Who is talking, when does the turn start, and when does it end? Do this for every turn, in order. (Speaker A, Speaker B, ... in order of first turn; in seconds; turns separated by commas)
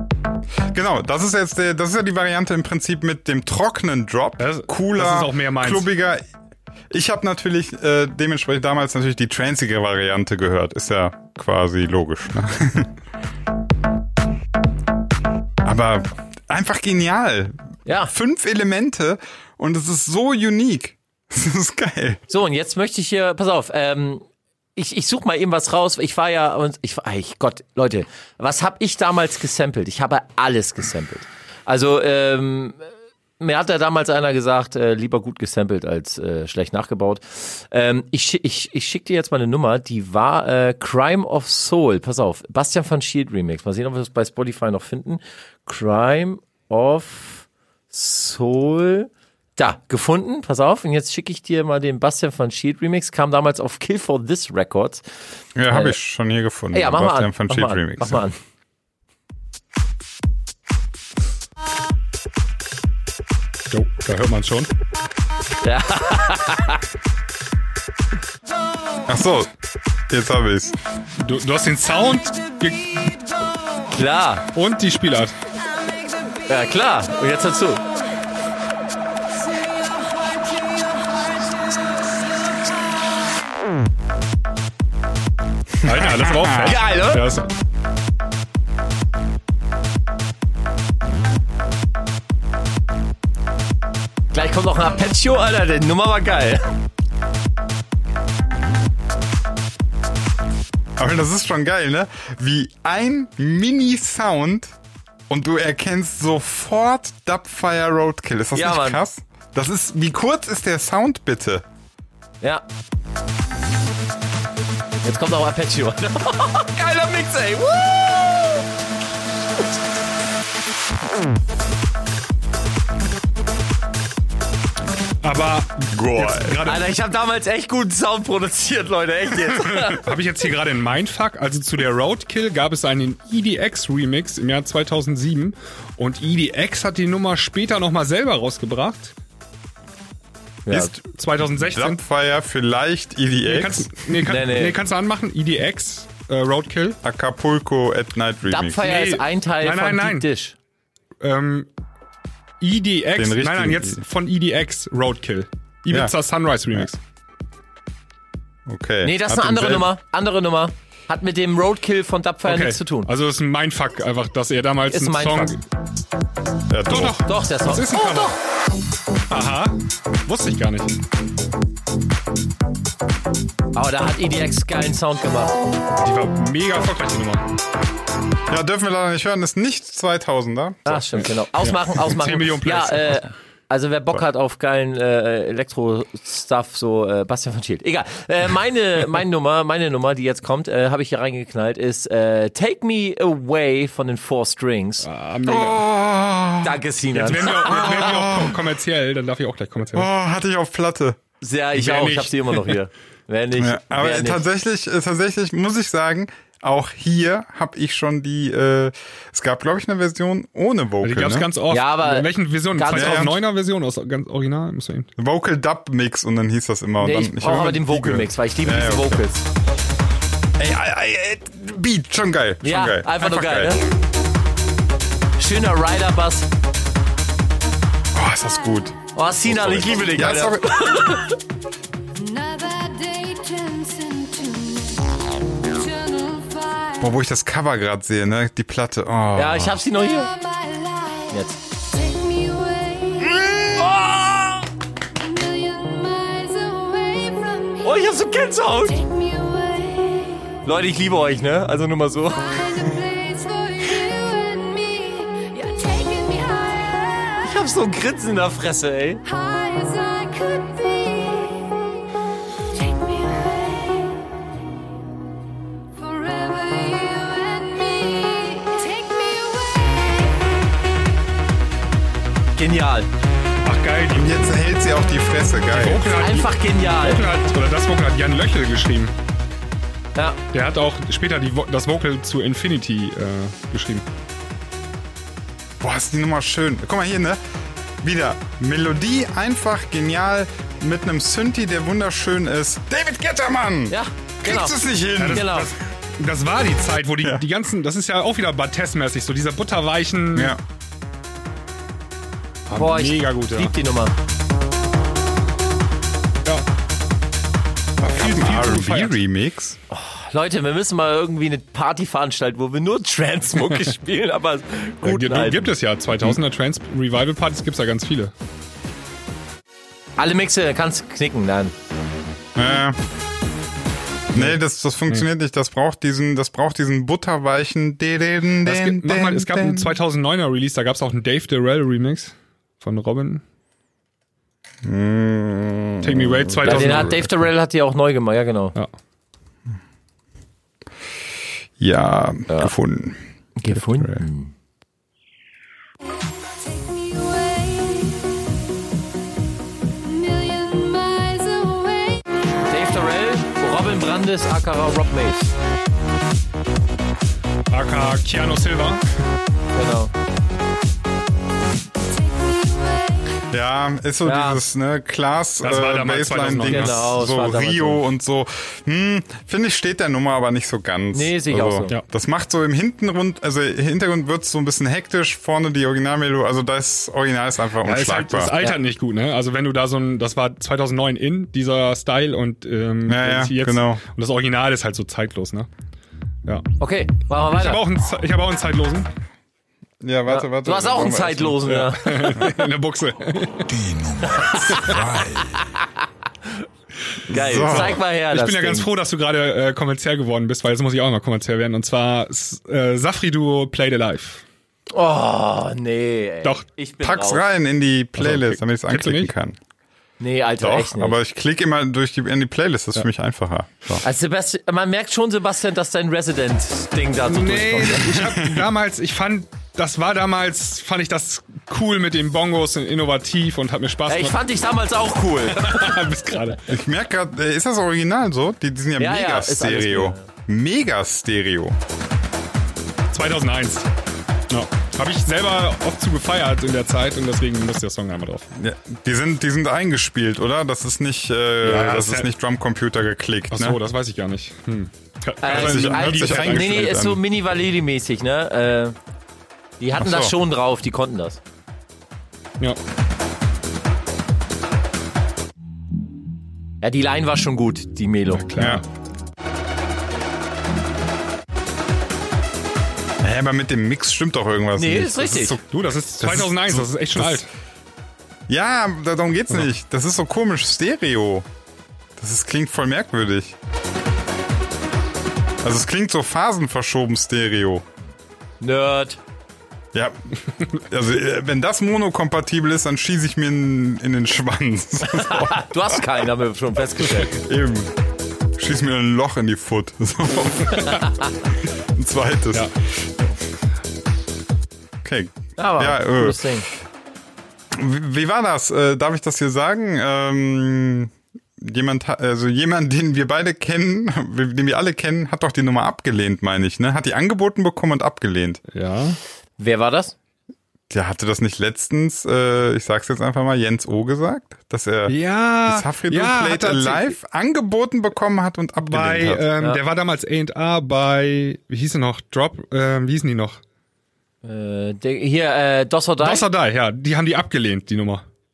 Speaker A: 0.7-6.2, Speaker B: 4.4-5.9, Speaker A: 6.9-12.9, Speaker A: 15.6-22.2, Speaker C: 17.9-18.1, Speaker C: 22.3-24.2, Speaker C: 24.8-32.9, Speaker C: 33.4-55.0, Speaker A: 55.5-58.2, Speaker C: 55.7-56.0, Speaker C: 56.7-58.4, Speaker B: 63.7-64.7, Speaker C: 65.6-66.8, Speaker A: 69.1-69.5, Speaker A: 70.1-70.8, Speaker B: 71.2-73.1, Speaker C: 73.9-74.5, Speaker B: 74.5-75.3, Speaker C: 76.5-77.8, Speaker A: 85.8-86.7, Speaker B: 85.8-87.5, Speaker C: 86.6-87.2, Speaker C: 94.3-96.7, Speaker A: 101.0-104.7, Speaker A: 105.3-111.6, Speaker C: 108.5-109.0, Speaker C: 115.0-118.6, Speaker B: 125.2-126.9, Speaker A: 125.9-126.6, Speaker C: 126.6-130.1, Speaker B: 129.6-139.1, Speaker C: 140.7-140.9, Speaker B: 141.0-142.0, Speaker A: 141.7-144.0, Speaker B: 143.4-147.0, Speaker C: 144.2-144.8, Speaker A: 147.0-148.9, Speaker C: 148.5-150.5, Speaker B: 148.8-150.3, Speaker B: 151.2-151.7, Speaker B: 152.6-157.0, Speaker A: 153.1-154.0, Speaker A: 158.7-159.9, Speaker C: 159.0-163.1, Speaker B: 162.4-165.6, Speaker C: 164.9-165.6, Speaker A: 166.7-167.2, Speaker B: 166.9-168.3, Speaker C: 167.2-168.3, Speaker B: 169.3-169.7, Speaker B: 170.2-171.0, Speaker C: 173.7-175.6, Speaker B: 176.0-177.4, Speaker A: 178.5-181.1, Speaker C: 180.9-195.1, Speaker B: 181.6-183.2, Speaker B: 195.0-195.8, Speaker A: 195.4-196.8, Speaker C: 196.6-198.1, Speaker B: 197.1-200.1, Speaker A: 197.4-198.7, Speaker A: 199.9-201.2, Speaker C: 201.4-204.4, Speaker B: 201.7-202.7, Speaker A: 203.6-211.5, Speaker B: 211.0-215.1, Speaker C: 211.7-213.3, Speaker A: 212.9-213.3, Speaker A: 215.2-219.2, Speaker C: 217.0-219.4, Speaker A: 220.6-223.8, Speaker C: 222.6-223.9, Speaker C: 225.4-226.5, Speaker A: 228.1-230.9, Speaker C: 229.1-231.3, Speaker D: 232.1-237.1, Speaker A: 237.0-239.8, Speaker C: 239.3-240.3, Speaker D: 239.9-244.0, Speaker C: 241.3-241.6, Speaker C: 243.3-244.7, Speaker D: 245.2-248.2, Speaker C: 247.8-249.0, Speaker D: 248.8-250.6, Speaker C: 250.6-252.8, Speaker D: 252.2-257.6, Speaker C: 257.4-259.2, Speaker D: 259.2-262.0, Speaker D: 262.7-264.3, Speaker D: 265.9-270.8, Speaker C: 272.6-273.1, Speaker B: 273.6-274.4, Speaker A: 274.1-276.1, Speaker B: 275.7-279.1, Speaker C: 276.1-277.3, Speaker B: 280.5-284.0, Speaker A: 285.8-287.4, Speaker A: 288.0-295.6, Speaker C: 293.9-294.8, Speaker B: 295.2-300.5, Speaker C: 295.3-295.7, Speaker A: 300.3-300.6, Speaker B: 302.7-303.7, Speaker C: 302.7-304.1, Speaker A: 308.0-309.8, Speaker B: 308.0-309.2, Speaker C: 309.9-315.7, Speaker B: 315.0-318.3, Speaker C: 320.2-321.7, Speaker A: 322.6-323.0, Speaker A: 324.3-330.0, Speaker B: 328.6-333.4, Speaker A: 334.8-337.1, Speaker B: 336.0-337.3, Speaker C: 336.6-338.7, Speaker A: 341.8-343.2, Speaker C: 343.6-344.5, Speaker A: 343.7-344.2, Speaker D: 346.5-348.4, Speaker D: 350.0-352.3, Speaker C: 352.7-355.5, Speaker B: 357.7-359.0, Speaker C: 359.7-360.1, Speaker D: 362.1-363.3, Speaker A: 363.5-378.5, Speaker C: 364.2-364.6, Speaker B: 365.6-367.2, Speaker C: 366.6-368.0, Speaker C: 371.1-371.9, Speaker B: 377.8-385.7, Speaker A: 383.1-384.0, Speaker C: 386.8-387.8, Speaker B: 387.5-389.1, Speaker A: 390.0-391.6, Speaker C: 390.3-392.5, Speaker B: 391.6-393.7, Speaker E: 393.7-395.6, Speaker A: 397.3-398.0, Speaker C: 397.3-398.9, Speaker B: 397.6-404.4, Speaker C: 404.9-407.4, Speaker A: 407.0-409.6, Speaker B: 408.2-409.3, Speaker C: 410.2-411.2, Speaker A: 410.6-414.0, Speaker C: 414.0-418.2, Speaker B: 417.2-424.4, Speaker A: 418.2-418.6, Speaker C: 424.1-426.3, Speaker B: 425.4-426.6, Speaker A: 426.7-431.8, Speaker C: 429.0-430.3, Speaker B: 433.1-433.9, Speaker B: 434.5-438.5, Speaker A: 438.5-443.8, Speaker B: 441.6-442.3, Speaker B: 443.5-447.1, Speaker C: 445.4-448.9, Speaker A: 445.4-447.2, Speaker C: 449.8-451.4, Speaker A: 450.0-450.3, Speaker C: 456.8-458.5, Speaker B: 458.4-458.8, Speaker A: 458.6-458.8, Speaker A: 463.2-467.4, Speaker C: 464.8-465.6, Speaker B: 465.7-467.5, Speaker A: 468.5-471.5, Speaker A: 472.2-473.6, Speaker A: 475.6-477.8, Speaker C: 478.6-479.2, Speaker A: 480.8-486.2, Speaker C: 485.1-487.3, Speaker A: 487.1-487.9, Speaker A: 488.6-493.1, Speaker A: 495.0-496.4, Speaker C: 495.6-496.7, Speaker A: 497.7-508.6, Speaker B: 508.7-509.2, Speaker C: 509.6-510.1, Speaker A: 510.9-519.5, Speaker B: 515.1-517.1, Speaker B: 518.8-523.6, Speaker C: 524.4-526.5, Speaker B: 526.2-528.2